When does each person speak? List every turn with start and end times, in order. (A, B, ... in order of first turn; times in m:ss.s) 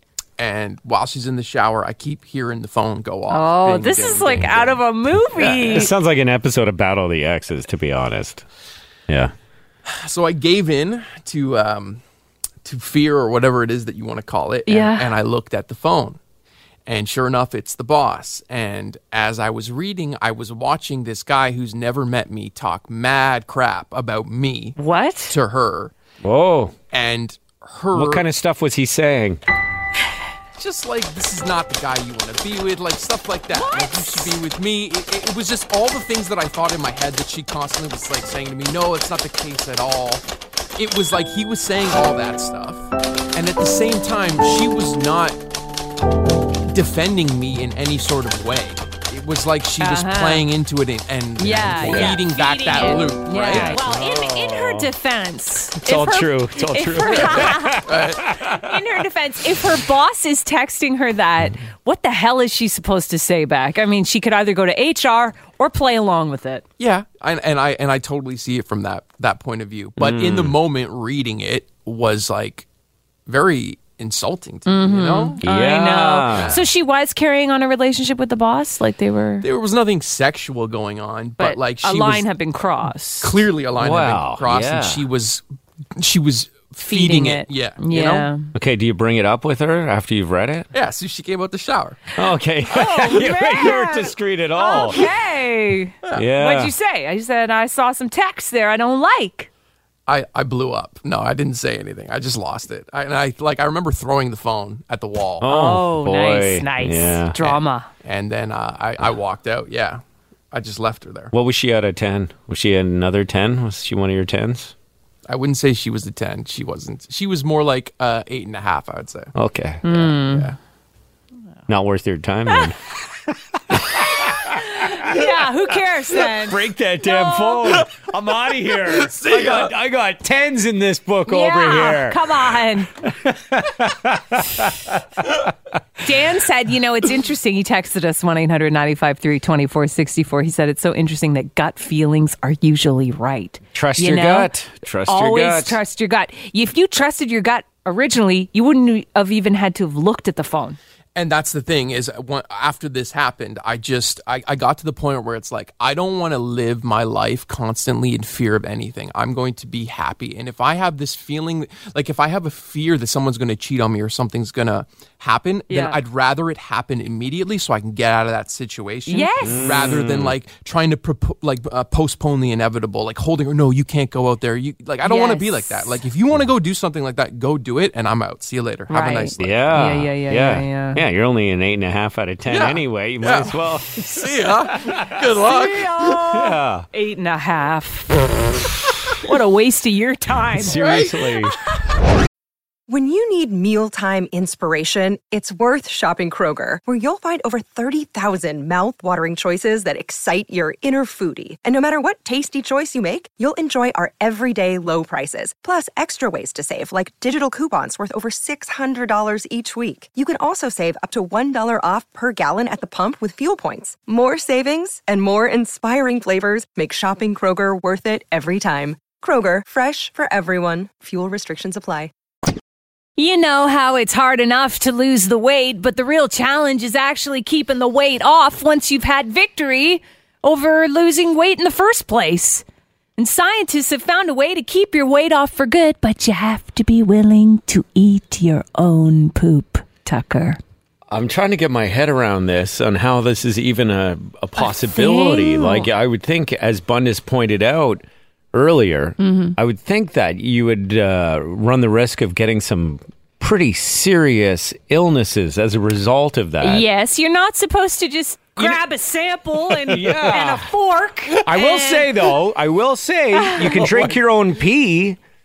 0:00.4-0:04.8 A
0:03.3-0:05.9 B
0:05.4-0:08.4 C
0:09.1-0:09.3 C
0:09.9-0:12.0 A
0:12.6-0:16.2 A
0:14.7-0:15.1 B
0:16.9-0:24.8 A
0:24.8-0:25.4 B
0:25.3-0:25.9 A
0:26.2-0:26.8 C
0:26.9-0:28.3 A
0:27.9-0:29.4 C
0:30.6-0:40.2 A
0:33.5-0:34.3 B
0:40.8-0:45.4 A
0:46.7-0:53.8 A
0:49.8-0:50.5 B
0:51.4-1:06.6 B
0:51.6-0:52.2 C
0:53.4-0:54.9 C
0:55.8-0:58.7 C
0:57.4-0:58.4 A
1:06.8-1:12.7 A
1:10.0-1:10.6 C
1:13.3-1:15.4 A
1:14.7-1:19.5 B
1:15.4-1:16.6 C
1:16.3-1:16.6 A
1:19.4-1:22.3 A
1:21.4-1:23.4 B
1:23.2-1:25.4 A
1:23.8-1:25.1 C
1:26.0-1:28.3 A
1:26.9-1:28.5 B
1:28.6-1:30.7 C
1:30.7-1:32.1 A
1:32.2-1:35.1 C
1:32.7-1:39.5 B
1:36.1-1:36.7 C
1:40.1-1:45.5 A
1:45.4-1:47.5 C
1:45.5-1:47.9 B
1:48.0-1:50.0 A
1:50.5-1:51.3 A
1:51.3-1:54.7 C
1:55.3-1:59.3 A
1:59.4-2:00.1 C
1:59.8-2:00.5 B
2:00.1-2:00.6 A
2:01.7-2:02.8 C
2:03.3-2:05.2 C
2:04.2-2:07.6 B
2:06.3-2:12.4 C
2:08.8-2:09.7 A
2:11.3-2:12.9 B
2:13.0-2:15.4 C
2:16.0-2:24.5 B
2:23.7-2:25.8 C
2:25.1-2:30.8 B
2:31.2-2:59.7 A
2:45.7-2:46.0 B
2:49.1-2:49.7 B
2:49.4-2:50.4 C
2:55.0-2:56.0 B
2:58.9-3:01.0 B
2:59.4-3:05.2 C
3:02.5-3:06.1 A
3:05.4-3:08.2 B
3:06.2-3:06.9 C
3:09.2-3:10.8 B
3:10.6-3:11.6 C
3:10.8-3:11.2 A
3:12.9-3:42.1 D
3:43.2-3:52.6 B
3:53.2-4:00.6 B
4:01.1-4:16.9 C
4:04.6-4:05.9 B
4:09.2-4:09.6 B
4:16.6-4:22.2 B
4:19.8-4:20.7 C
4:21.4-4:25.2 C
4:23.4-4:23.9 B
4:23.8-4:24.1 A